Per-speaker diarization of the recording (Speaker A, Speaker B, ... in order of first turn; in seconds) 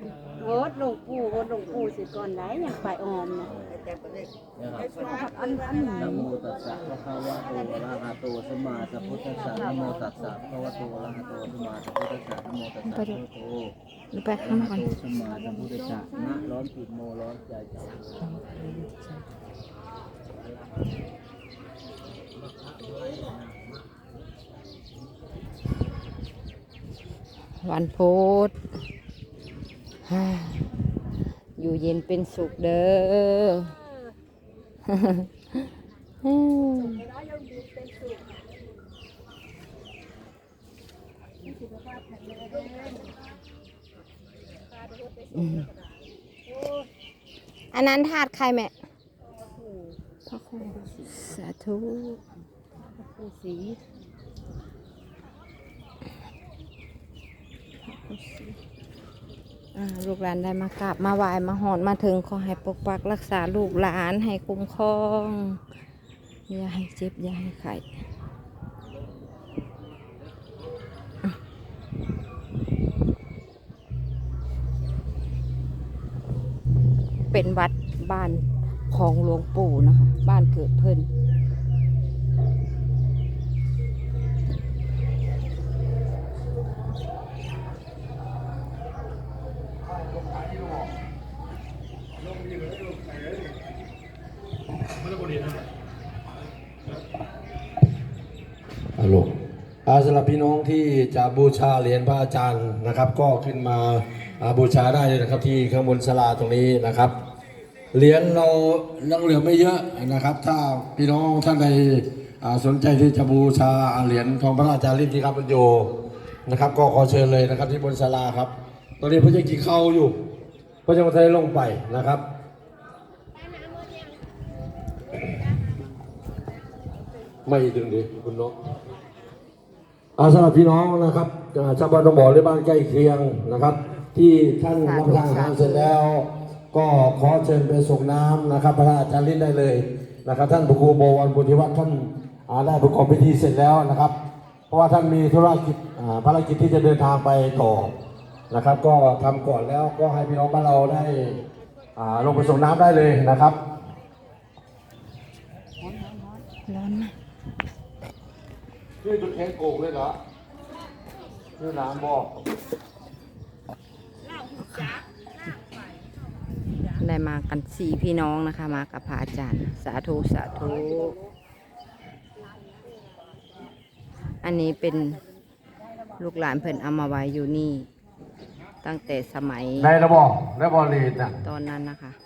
Speaker A: 0.5-3.4, 5.3-5.8, 53.0-53.8
Speaker B: 4.6-13.7, 14.4-18.0
Speaker C: 12.8-13.2, 14.1-15.0, 18.1-19.2, 27.6-28.6, 30.0-30.7, 31.6-33.7, 34.9-35.6, 36.2-37.1, 45.3-45.7, 47.7-48.7, 50.3-52.2, 57.8-58.6, 59.7-65.6, 66.5-67.9, 77.3-81.1, 134.8-135.9, 156.7-157.1, 164.6-165.0, 167.0-171.2, 174.4-175.2, 176.2-177.9, 178.8-179.9, 181.4-182.2
Speaker D: 99.0-99.3, 99.8-107.1, 107.9-115.9, 116.5-120.2, 120.8-122.2, 127.5-128.6, 130.2-144.1, 144.7-147.9, 148.5-151.4, 151.9-153.6, 159.0-160.2, 161.6-162.4, 179.8-181.4